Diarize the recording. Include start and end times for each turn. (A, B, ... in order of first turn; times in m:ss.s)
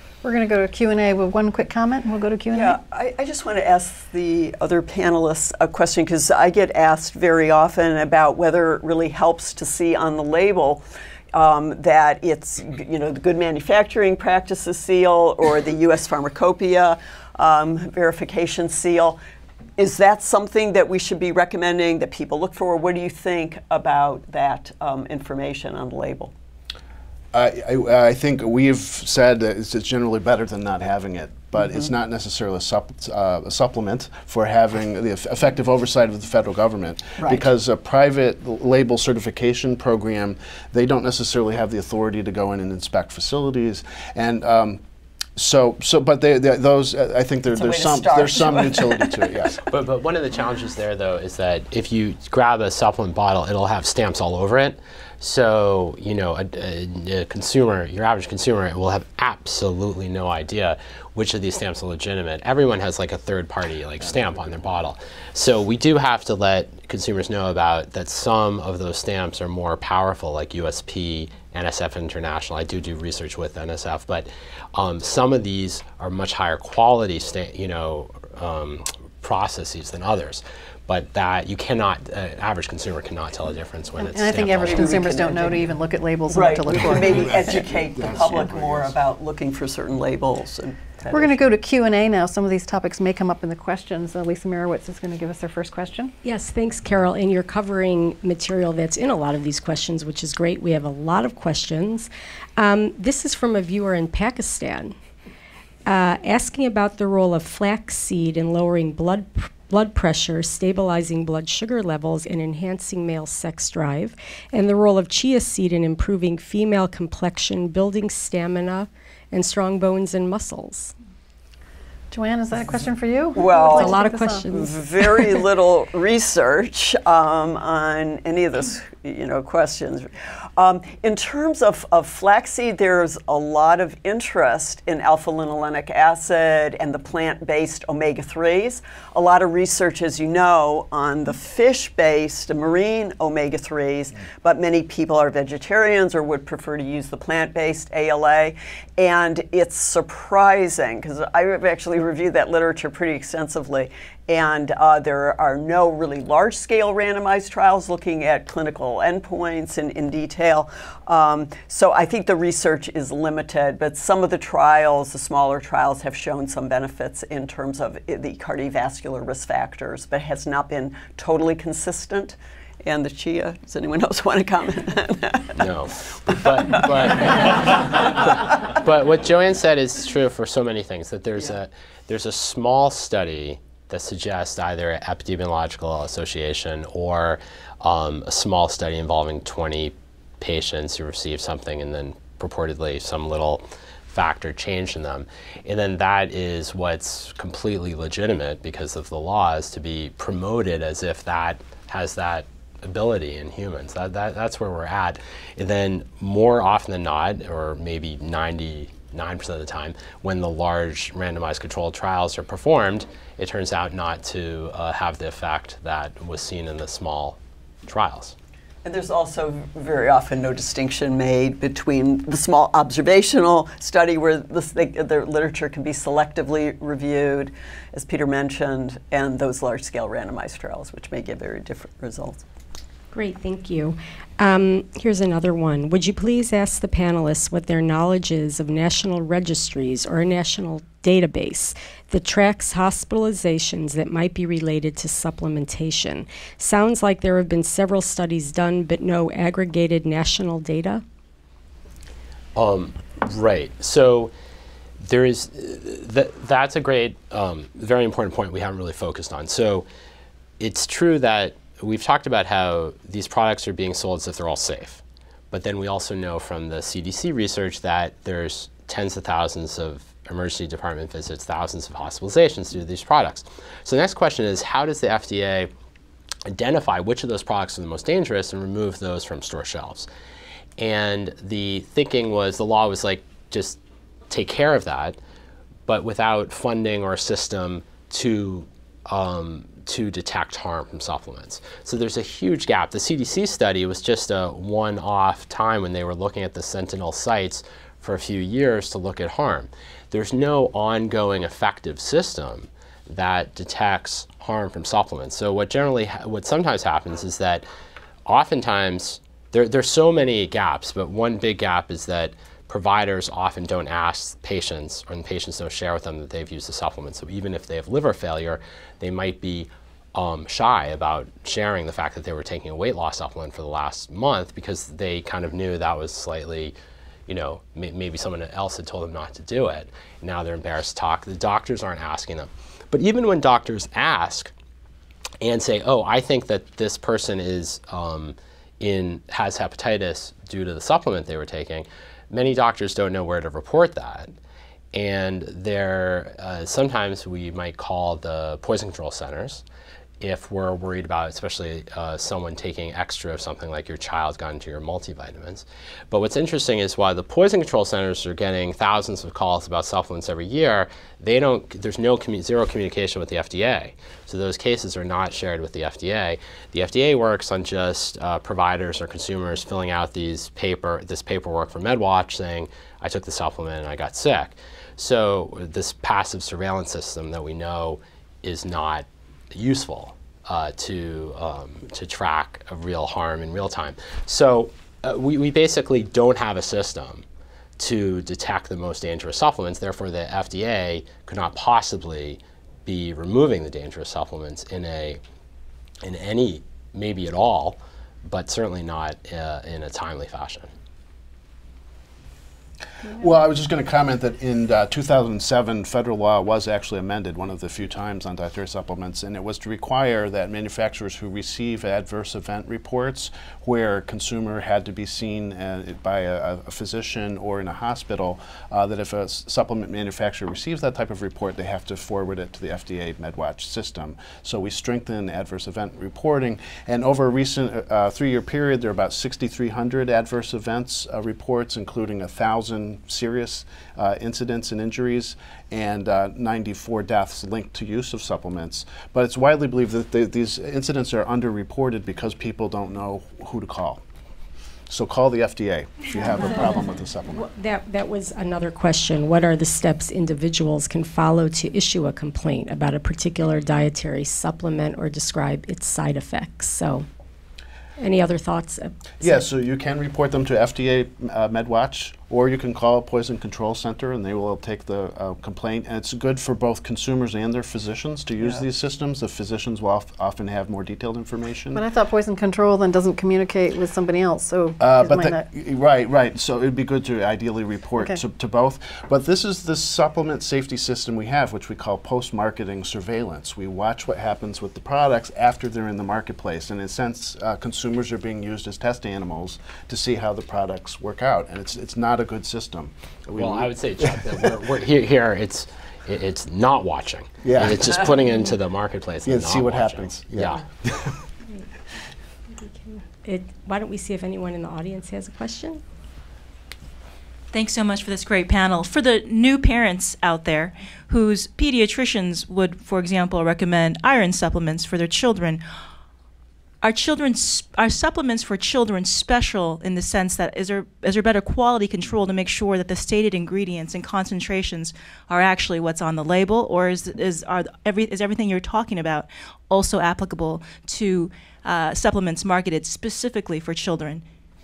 0:00.2-0:02.8 A
0:02.5-0:19.2 B
0:19.8-0:26.3 B
0:27.3-0:44.8 C
0:37.2-0:37.4 B
0:45.4-0:49.6 C
0:47.5-0:49.4 B
0:49.7-1:25.1 D
1:04.0-1:04.6 C
1:24.0-1:27.5 A
1:24.6-1:25.7 B
1:26.3-1:31.5 B
1:26.7-1:28.9 C
1:31.1-1:36.1 A
1:36.2-1:44.9 E
1:45.8-2:00.9 E
2:02.1-2:04.6 A
2:03.4-2:55.6 B
2:03.6-2:05.4 E
2:55.5-3:38.3 D
2:56.3-2:57.5 B
2:58.1-2:58.6 B
3:38.8-3:52.4 B
3:53.1-4:11.0 E
4:12.5-4:14.3 D
4:15.0-4:19.9 D
4:20.6-4:35.7 D
4:36.5-4:40.1 D
4:40.8-4:43.8 D
4:44.3-4:45.2 D
4:45.9-5:07.6 D
5:08.2-5:26.7 D
5:27.3-5:34.5 D
5:35.4-5:44.3 D
5:44.9-5:49.6 D
5:50.2-6:27.2 D
6:27.8-6:35.2 D
6:36.0-6:40.7 D
6:43.1-7:24.0 C
7:24.9-7:27.5 C
7:26.2-7:26.6 E
7:27.4-7:37.0 E
7:38.0-7:39.4 E
7:39.2-7:51.8 C
7:48.4-7:48.6 B
7:51.7-7:55.4 A
7:54.8-8:14.5 C
8:13.4-8:20.6 D
8:17.4-8:17.9 C
8:19.2-8:21.1 C
8:22.6-8:25.8 E
8:27.5-8:35.6 F
8:36.8-8:54.2 F